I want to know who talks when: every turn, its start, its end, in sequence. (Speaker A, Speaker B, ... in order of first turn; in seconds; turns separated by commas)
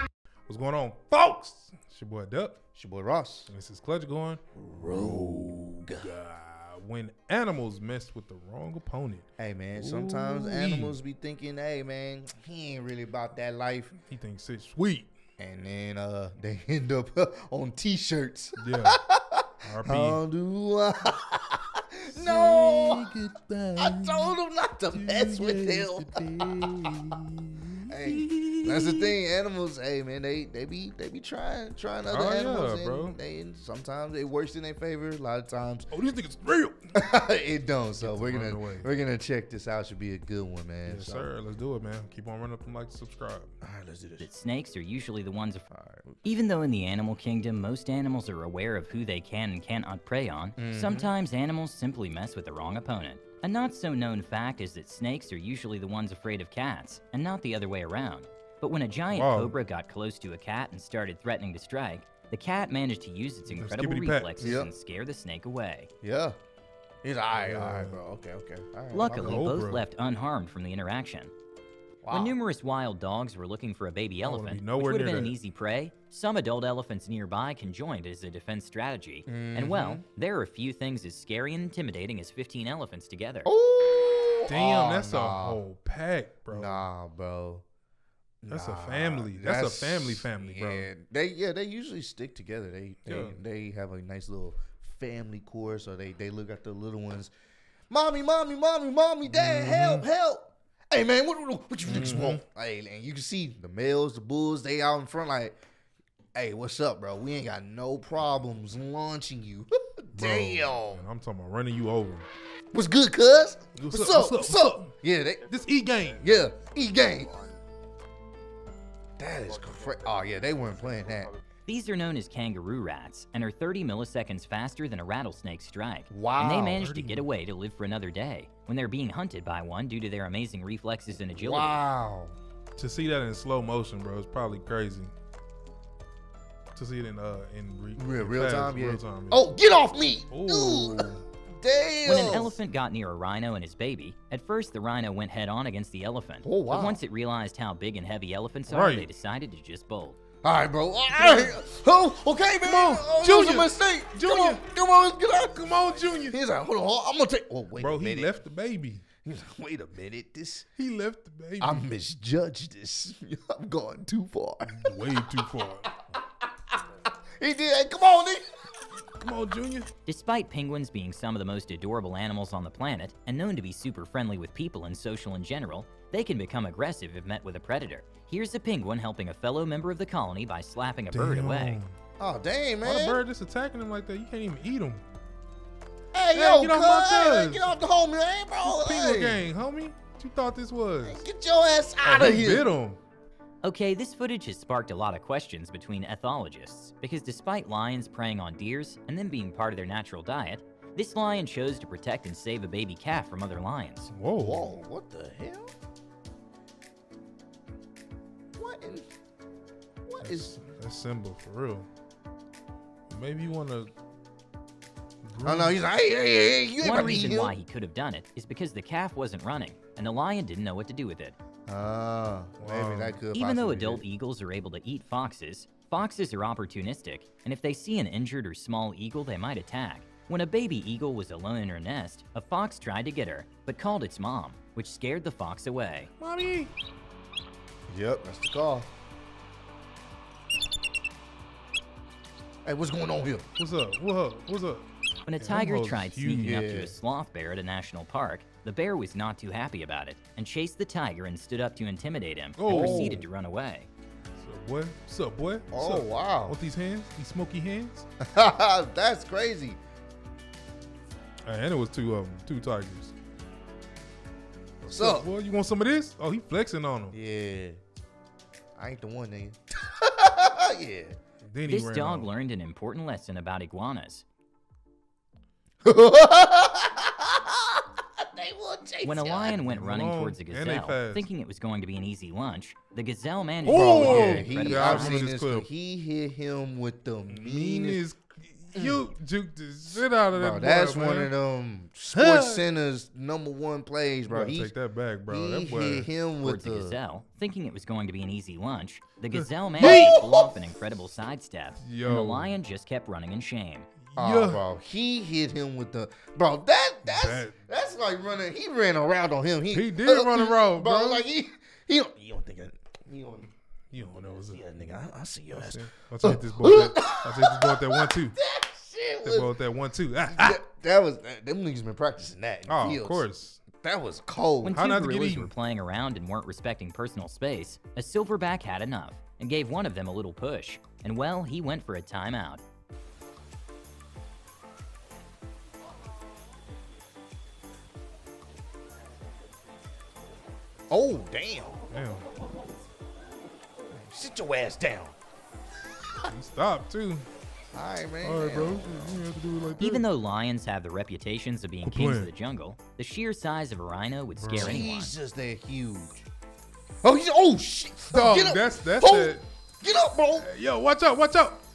Speaker A: 0.5-2.6, Speaker B: 2.8-3.5, Speaker A: 3.5-11.0, Speaker B: 4.6-6.1, Speaker B: 9.4-13.9, Speaker A: 14.0-15.1, Speaker B: 15.4-23.1, Speaker A: 18.6-19.0, Speaker A: 19.6-20.2, Speaker A: 22.1-24.4, Speaker B: 23.8-26.9, Speaker A: 24.9-29.2, Speaker B: 27.9-35.9, Speaker A: 32.1-33.2, Speaker A: 35.9-36.8, Speaker B: 36.9-41.3, Speaker A: 38.0-38.9, Speaker A: 40.9-43.5, Speaker B: 43.6-44.3, Speaker C: 44.2-45.7, Speaker B: 45.7-46.2, Speaker C: 46.2-65.9, Speaker B: 50.6-51.1, Speaker A: 59.1-59.6, Speaker A: 63.5-64.5, Speaker B: 64.4-64.7, Speaker B: 66.0-66.4, Speaker B: 67.0-69.5, Speaker A: 67.4-68.0, Speaker C: 68.9-71.3, Speaker A: 69.1-69.8, Speaker B: 72.0-72.4, Speaker C: 72.1-83.5, Speaker A: 74.2-75.4, Speaker B: 79.3-80.0, Speaker B: 83.5-85.6, Speaker A: 84.5-86.9, Speaker B: 86.5-87.6, Speaker B: 88.4-97.3, Speaker A: 88.5-90.9, Speaker A: 93.0-93.4, Speaker B: 97.9-105.5, Speaker A: 99.3-100.1, Speaker A: 101.9-102.4, Speaker B: 106.3-111.0, Speaker A: 110.2-112.3, Speaker B: 112.7-115.5, Speaker A: 113.7-114.9, Speaker A: 115.5-116.2, Speaker B: 116.1-117.3, Speaker B: 119.2-121.4, Speaker C: 121.7-131.8, Speaker B: 126.1-126.8, Speaker A: 126.8-127.3, Speaker B: 131.3-132.4, Speaker A: 132.8-135.1, Speaker A: 136.8-139.5, Speaker B: 138.0-142.6, Speaker A: 140.3-141.3, Speaker C: 142.1-150.2, Speaker B: 146.4-147.0, Speaker A: 148.7-149.1, Speaker B: 150.4-158.3, Speaker A: 151.2-151.6, Speaker A: 152.6-154.7, Speaker A: 155.4-156.4, Speaker A: 157.8-159.1, Speaker B: 159.2-160.7, Speaker A: 160.8-161.9, Speaker B: 161.6-165.2, Speaker A: 164.7-165.9, Speaker B: 166.1-168.4, Speaker A: 169.2-169.9, Speaker C: 170.1-181.8, Speaker A: 181.1-181.9, Speaker B: 182.2-183.2, Speaker A: 182.8-185.1, Speaker B: 186.1-189.4, Speaker A: 186.3-187.7, Speaker A: 188.6-191.3, Speaker B: 191.1-192.7, Speaker A: 192.0-193.0, Speaker C: 193.6-204.1, Speaker A: 204.1-204.8, Speaker B: 204.4-205.7, Speaker B: 208.6-209.1, Speaker B: 210.1-210.5, Speaker A: 210.2-211.9, Speaker A: 213.1-213.9, Speaker A: 215.2-215.8, Speaker B: 215.4-217.6, Speaker C: 216.8-221.4, Speaker B: 221.7-224.0, Speaker A: 222.6-223.2, Speaker C: 223.3-236.1, Speaker A: 236.2-236.7, Speaker B: 237.9-238.9, Speaker B: 242.7-243.5, Speaker A: 243.6-244.9, Speaker C: 245.3-253.9, Speaker A: 245.4-246.5, Speaker B: 246.4-246.9, Speaker A: 252.6-253.3, Speaker B: 252.7-253.2, Speaker A: 254.4-258.1, Speaker B: 255.7-256.6, Speaker B: 258.2-259.8, Speaker A: 261.4-263.1, Speaker B: 264.8-265.3, Speaker A: 264.9-267.2, Speaker B: 267.1-267.8, Speaker B: 268.8-271.2, Speaker A: 271.4-272.3, Speaker C: 271.6-274.2, Speaker B: 275.8-279.6, Speaker C: 279.0-285.2, Speaker A: 279.4-281.3, Speaker A: 283.6-285.7, Speaker B: 283.6-288.0, Speaker A: 287.3-291.3, Speaker B: 288.8-289.0, Speaker B: 290.0-294.7, Speaker A: 292.1-292.6, Speaker A: 294.3-296.1, Speaker B: 295.3-297.0, Speaker C: 296.4-303.9, Speaker A: 299.3-300.1, Speaker B: 299.8-300.6, Speaker A: 301.8-302.6, Speaker A: 304.1-304.6, Speaker B: 304.2-319.5, Speaker A: 307.1-307.6, Speaker A: 309.7-311.3, Speaker A: 313.9-314.7, Speaker A: 315.5-318.4, Speaker A: 319.2-320.6, Speaker B: 320.3-323.3, Speaker A: 322.7-323.6, Speaker B: 323.8-324.8, Speaker C: 324.6-332.6, Speaker A: 324.7-325.5, Speaker B: 340.9-341.9, Speaker A: 341.9-342.3, Speaker B: 343.9-345.1, Speaker A: 346.3-347.3, Speaker B: 347.7-349.2, Speaker A: 348.2-350.1, Speaker C: 349.8-355.1, Speaker A: 351.9-352.3, Speaker A: 354.4-354.9, Speaker B: 354.6-356.2, Speaker B: 357.0-360.5, Speaker A: 358.1-359.5, Speaker A: 360.4-361.6